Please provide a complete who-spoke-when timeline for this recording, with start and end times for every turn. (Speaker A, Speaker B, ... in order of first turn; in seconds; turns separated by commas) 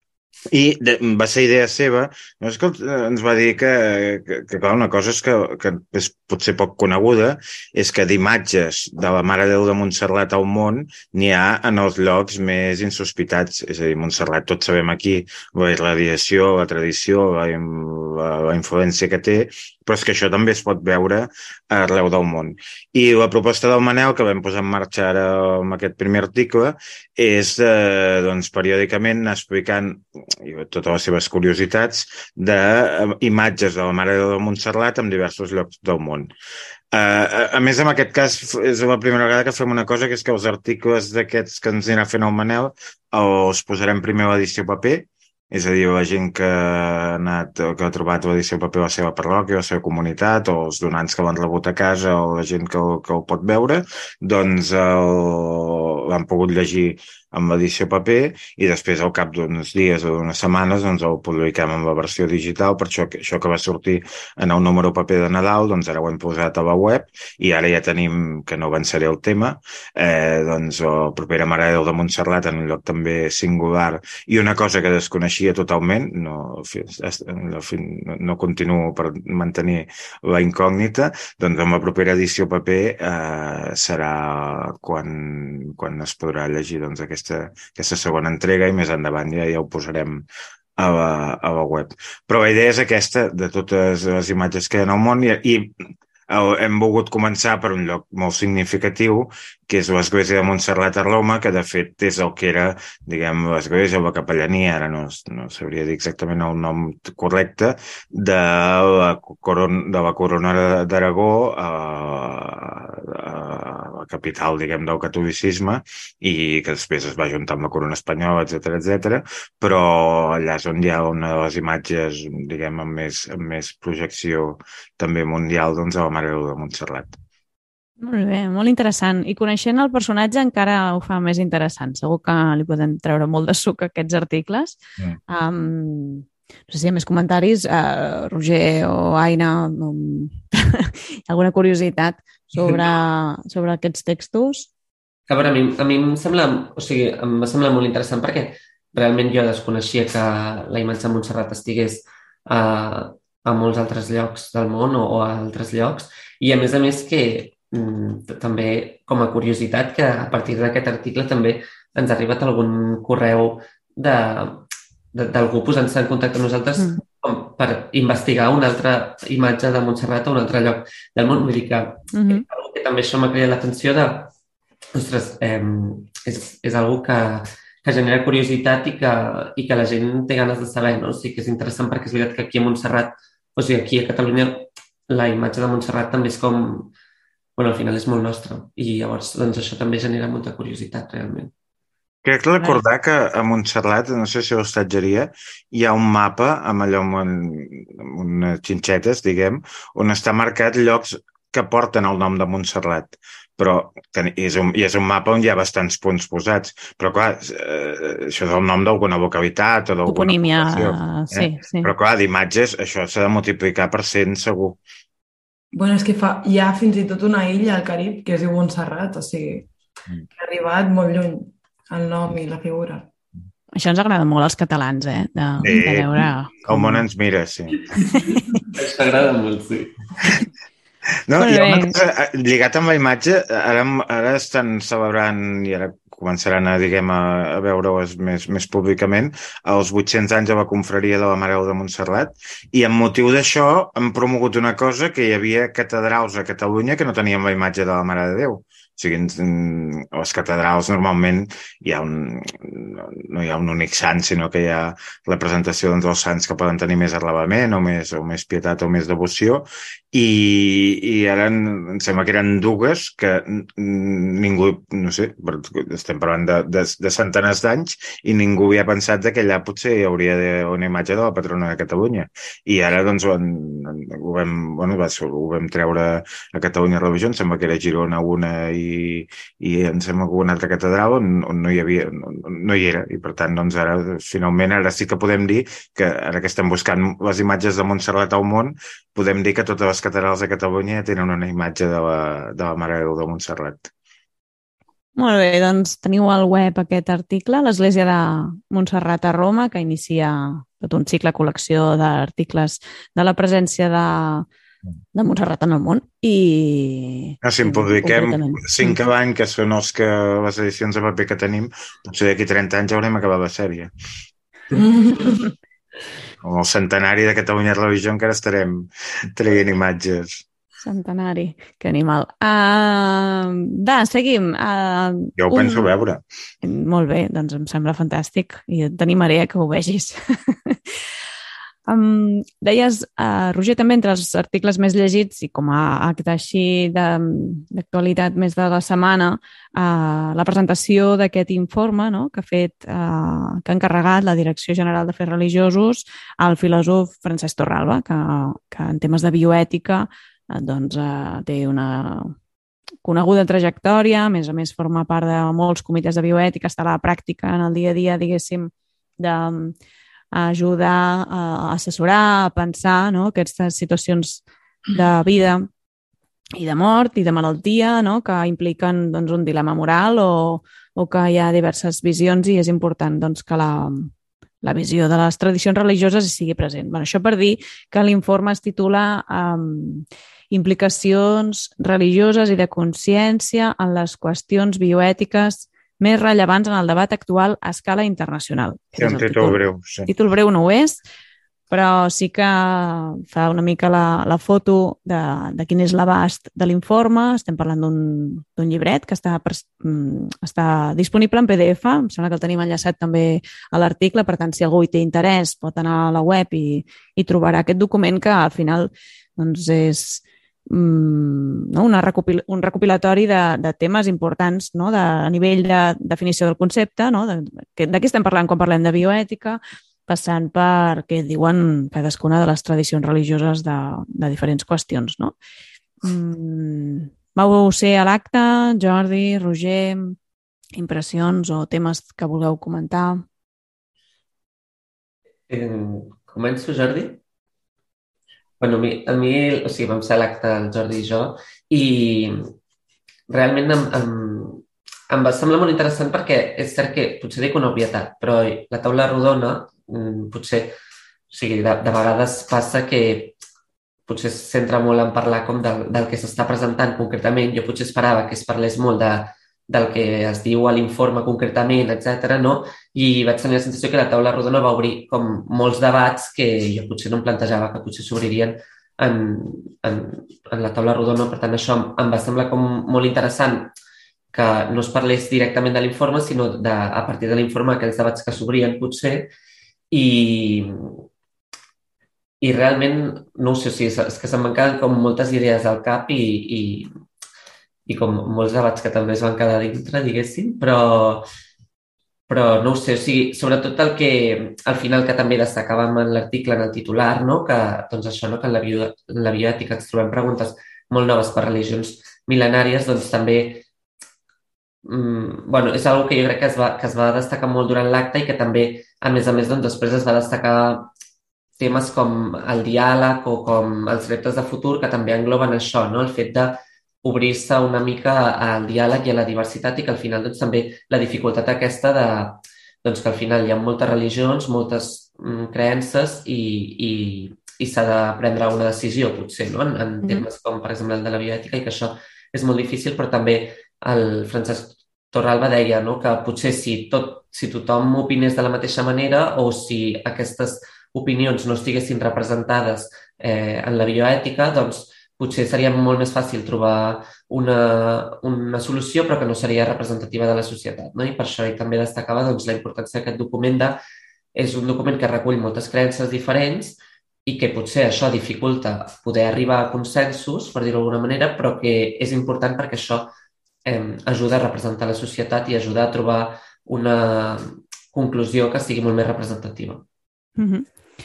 Speaker A: 0.5-36.3, Speaker A: 36.9-90.3, Speaker A: 90.8-95.8, Speaker A: 96.3-127.2, Speaker B: 128.0-144.7, Speaker C: 145.3-174.3, Speaker B: 172.1-172.4, Speaker C: 174.9-186.9, Speaker C: 187.6-191.5, Speaker A: 192.2-214.8, Speaker B: 210.1-211.9, Speaker D: 215.7-219.7, Speaker D: 220.4-223.1, Speaker B: 223.8-227.0, Speaker A: 225.6-227.8, Speaker C: 228.0-230.0, Speaker B: 228.1-228.6, Speaker A: 231.3-293.9, Speaker B: 231.4-232.0, Speaker B: 295.2-304.5, Speaker B: 305.1-309.0, Speaker A: 307.4-313.9, Speaker D: 314.7-315.4, Speaker A: 316.4-320.4, Speaker B: 320.8-325.9, Speaker A: 325.4-326.2, Speaker B: 326.6-330.9, Speaker B: 331.9-352.3, Speaker B: 353.0-359.8, Speaker B: 360.3-365.7, Speaker B: 366.6-374.1, Speaker B: 374.6-391.0, Speaker A: 389.0-390.1, Speaker B: 391.7-425.4, Speaker B: 426.0-430.2, Speaker B: 430.8-433.2, Speaker C: 435.5-437.2, Speaker C: 438.6-442.5, Speaker C: 443.3-450.7, Speaker C: 451.3-453.4, Speaker C: 454.1-473.7, Speaker C: 474.3-479.3, Speaker C: 479.9-481.0, Speaker C: 482.4-486.9, Speaker C: 487.9-491.3, Speaker C: 492.3-503.6, Speaker C: 504.9-510.9, Speaker C: 511.6-553.8, Speaker C: 554.3-563.1, Speaker C: 563.6-569.9, Speaker B: 570.4-570.7